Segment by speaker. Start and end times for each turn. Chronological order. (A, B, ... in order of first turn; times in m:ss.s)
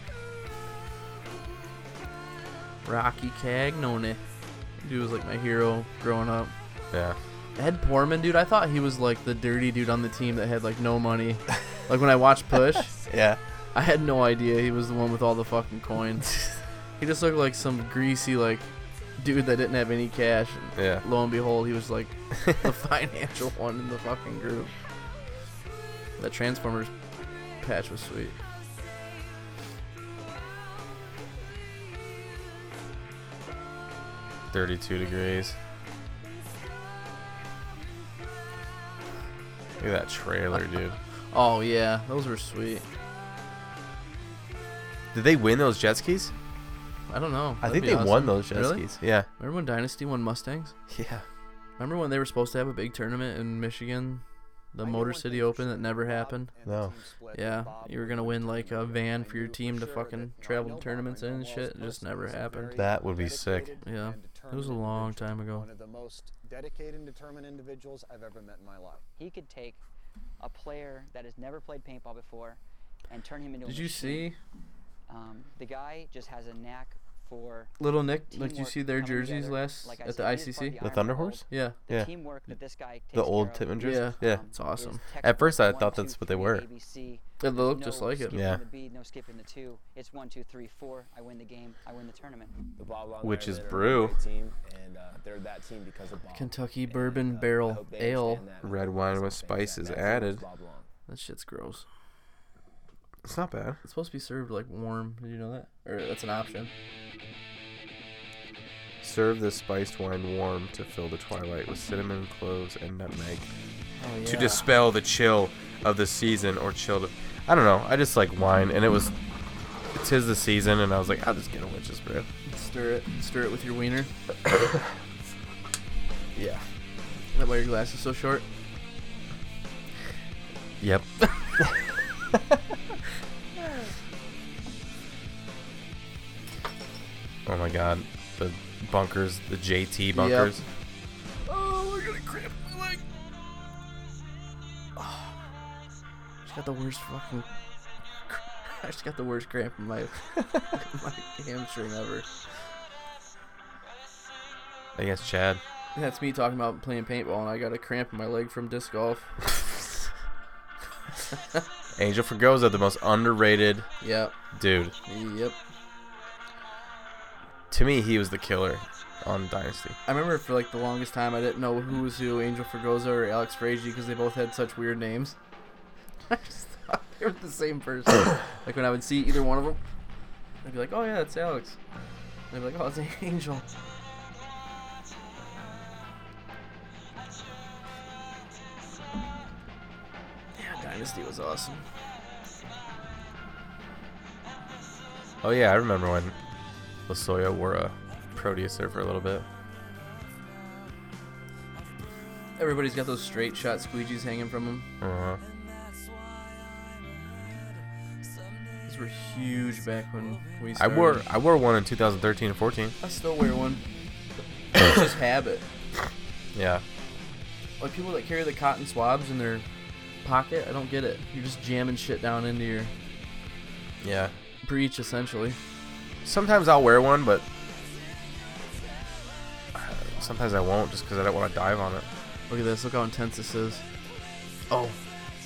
0:02.8-0:04.2 A
0:04.8-0:06.5 A
0:06.9-0:07.2 B
0:07.6-0:13.0 A
0:13.1-0:13.4 B
0:13.7-0:24.7 A
0:20.8-0:21.0 B
0:26.2-0:26.9 A
0:27.6-0:28.4 A
0:34.5-0:35.6 B
0:39.8-0:41.0 B
0:41.3-0:42.8 A
0:45.1-0:46.3 B
0:47.1-0:50.7 A
0:47.6-0:49.3 B
0:50.9-0:51.2 B
0:51.8-0:56.5 A
0:54.8-1:09.0 C
0:56.6-0:56.9 B
0:57.3-1:02.8 A
1:02.8-1:03.7 B
1:03.8-1:05.7 A
1:09.2-1:09.8 D
1:10.4-1:14.3 D
1:13.6-1:14.4 A
1:15.1-1:32.6 D
1:17.8-1:20.8 A
1:20.8-1:22.1 B
1:21.5-1:21.8 A
1:23.1-1:24.4 B
1:23.8-1:25.0 A
1:25.2-1:26.6 B
1:27.4-1:28.4 A
1:28.3-1:28.6 B
1:32.8-1:40.9 E
1:33.2-1:34.2 B
1:36.3-1:38.4 A
1:38.6-1:40.4 B
1:41.1-1:41.8 A
1:43.2-1:43.8 B
1:43.8-1:46.7 A
1:49.0-1:53.5 B
1:54.0-1:54.7 A
1:54.2-1:59.1 B
1:59.9-2:02.3 B
2:02.5-2:04.1 A
2:06.3-2:06.6 B
2:07.3-2:08.4 A
2:10.8-2:11.8 B
2:17.4-2:20.6 B
2:20.1-2:20.5 A
2:21.4-2:23.0 A
2:25.0-2:25.3 A
2:26.4-2:27.5 A
2:28.3-2:32.2 A
2:35.0-2:35.6 B
2:35.9-2:39.3 A
2:42.0-2:43.9 B
2:44.0-2:44.3 A
2:44.5-2:45.0 B
2:45.1-2:45.6 A
2:47.7-2:50.0 B
2:50.0-2:55.4 A
2:56.3-2:59.8 A
3:00.6-3:01.8 A
3:02.5-3:03.6 A
3:10.5-3:11.8 A
3:15.4-3:16.3 B
3:17.1-3:19.4 B
3:22.6-3:24.9 A
3:25.0-3:25.4 B
3:28.8-3:31.2 A
3:30.8-3:32.9 B
3:33.0-3:33.8 A
3:34.8-3:35.6 A
3:36.5-3:36.8 B
3:37.8-3:39.6 A
3:40.2-3:42.9 A
3:44.0-3:44.3 B
3:44.6-3:45.6 A
3:46.2-3:47.4 B
3:49.7-3:52.1 B
3:52.5-3:53.8 A
3:54.7-3:55.0 A